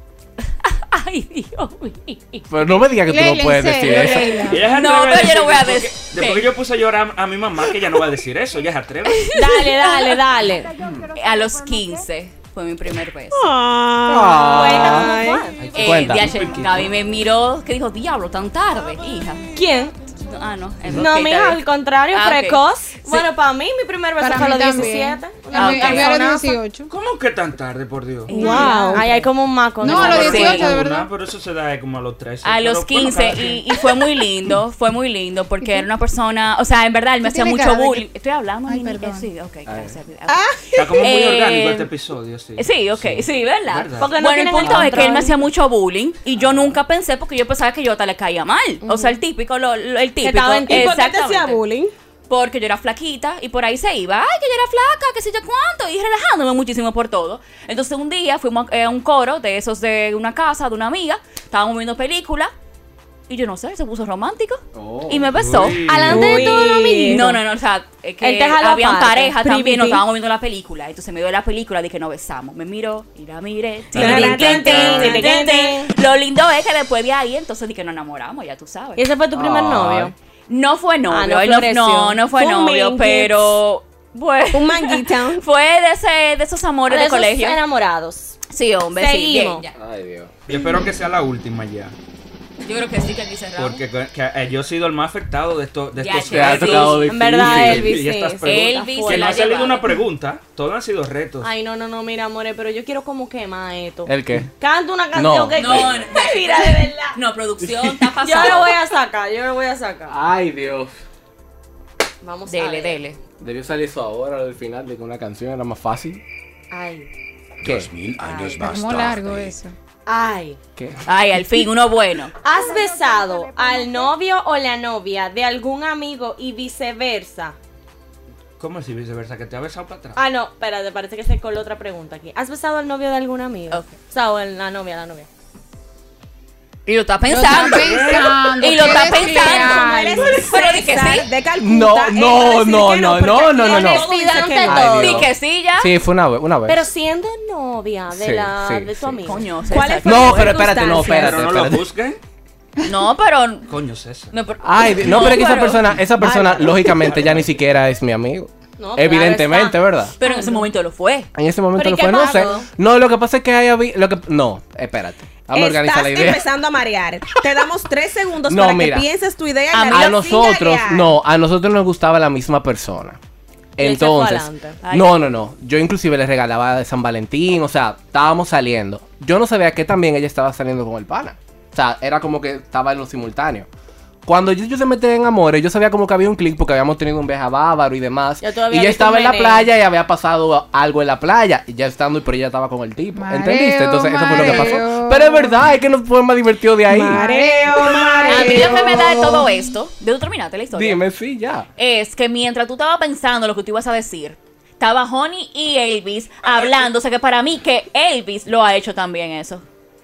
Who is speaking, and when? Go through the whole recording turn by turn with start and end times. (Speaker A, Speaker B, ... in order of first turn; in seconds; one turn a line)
Speaker A: 0.7-2.5
Speaker B: 2.5-4.3
Speaker C: 3.1-4.7
Speaker A: 4.0-6.5
Speaker D: 4.5-9.3
Speaker A: 9.1-10.2
Speaker E: 9.3-10.7
Speaker B: 10.8-11.1
Speaker A: 11.1-13.5
Speaker F: 13.3-15.5
Speaker B: 14.1-15.2
Speaker E: 14.3-15.5
Speaker D: 15.6-16.9
Speaker A: 15.7-19.5
Speaker B: 15.8-16.4
Speaker E: 19.6-19.9
Speaker A: 20.2-23.3
Speaker E: 20.9-26.6
Speaker C: 24.2-26.9
Speaker A: 25.6-26.1
Speaker D: 26.9-28.6
Speaker F: 28.3-29.2
Speaker E: 28.3-30.7
Speaker C: 28.3-29.0
Speaker C: 29.8-31.1
Speaker A: 29.9-30.8
Speaker D: 29.9-33.6
Speaker A: 32.4-41.9
Speaker C: 37.2-38.1
Speaker C: 38.7-39.3
Speaker B: 39.7-40.0
Speaker F: 40.3-40.8
Speaker D: 40.8-44.1
Speaker A: 42.6-51.6
Speaker E: 43.9-45.3
Speaker B: 44.6-44.9
Speaker B: 46.4-46.7
Speaker E: 48.8-49.2
Speaker E: 50.2-51.1
Speaker F: 50.7-51.9
Speaker A: 52.3-62.5
Speaker A: 63.3-79.0
Speaker B: 64.8-65.5
Speaker D: 65.4-66.5
Speaker E: 65.9-67.3
Speaker F: 66.0-67.4
Speaker E: 68.2-70.0
Speaker D: 74.0-74.8
Speaker E: 74.0-75.9
Speaker F: 74.0-74.8
Speaker E: 79.0-80.1
Speaker B: 79.3-80.1
Speaker A: 80.5-87.6
Speaker E: 81.1-82.2
Speaker F: 82.3-83.5
Speaker F: 84.5-85.4
Speaker E: 86.9-88.4
Speaker A: 88.5-89.7
Speaker E: 89.0-89.7
Speaker B: 89.8-90.3
Speaker D: 90.5-92.0
Speaker A: 92.6-93.8
Speaker D: 93.6-101.5
Speaker A: 96.0-97.1
Speaker B: 96.3-98.0
Speaker E: 97.0-99.4
Speaker A: 98.4-100.0
Speaker E: 101.4-107.2
Speaker B: 104.1-104.5
Speaker B: 105.1-106.0
Speaker A: 105.6-108.8
Speaker B: 107.7-108.0
Speaker E: 108.2-110.2
Speaker B: 110.1-110.9
Speaker E: 112.2-113.0
Speaker A: 112.5-113.2
Speaker B: 113.4-116.2
Speaker E: 116.7-117.1
Speaker B: 117.6-119.3
Speaker E: 118.1-118.8
Speaker C: 118.4-119.8
Speaker E: 120.1-120.6
Speaker B: 120.8-121.0
Speaker A: 121.0-122.3
Speaker E: 122.4-127.6
Speaker C: 122.8-123.2
Speaker D: 128.6-130.2
Speaker E: 130.2-135.3
Speaker A: 136.9-141.3
Speaker C: 137.3-140.5
Speaker D: 137.5-139.0
Speaker F: 139.1-145.1
Speaker B: 141.6-146.8
Speaker E: 143.6-145.3
Speaker A: 144.8-145.9
Speaker E: 146.7-149.4
Speaker B: 148.2-149.3
Speaker A: 149.2-151.1
Speaker F: 149.7-151.5
Speaker B: 150.0-151.9
Speaker D: 151.1-152.2
Speaker A: 152.8-153.7
Speaker D: 153.7-154.3
Speaker A: 154.3-156.0
Speaker B: 154.6-160.1
Speaker F: 156.2-157.2
Speaker E: 158.8-160.6
Speaker A: 160.2-161.3
Speaker B: 161.3-166.5
Speaker E: 161.8-162.7
Speaker F: 165.5-171.1
Speaker B: 168.5-169.1
Speaker A: 169.7-170.2
Speaker B: 169.9-173.2
Speaker B: 173.8-183.7
Speaker E: 173.8-174.8
Speaker A: 174.8-175.2
Speaker B: 184.2-197.2
Speaker E: 188.4-189.7
Speaker C: 193.2-195.6
Speaker F: 196.8-199.2
Speaker C: 197.2-199.7
Speaker A: 198.3-201.0
Speaker B: 200.7-201.7
Speaker A: 201.8-209.6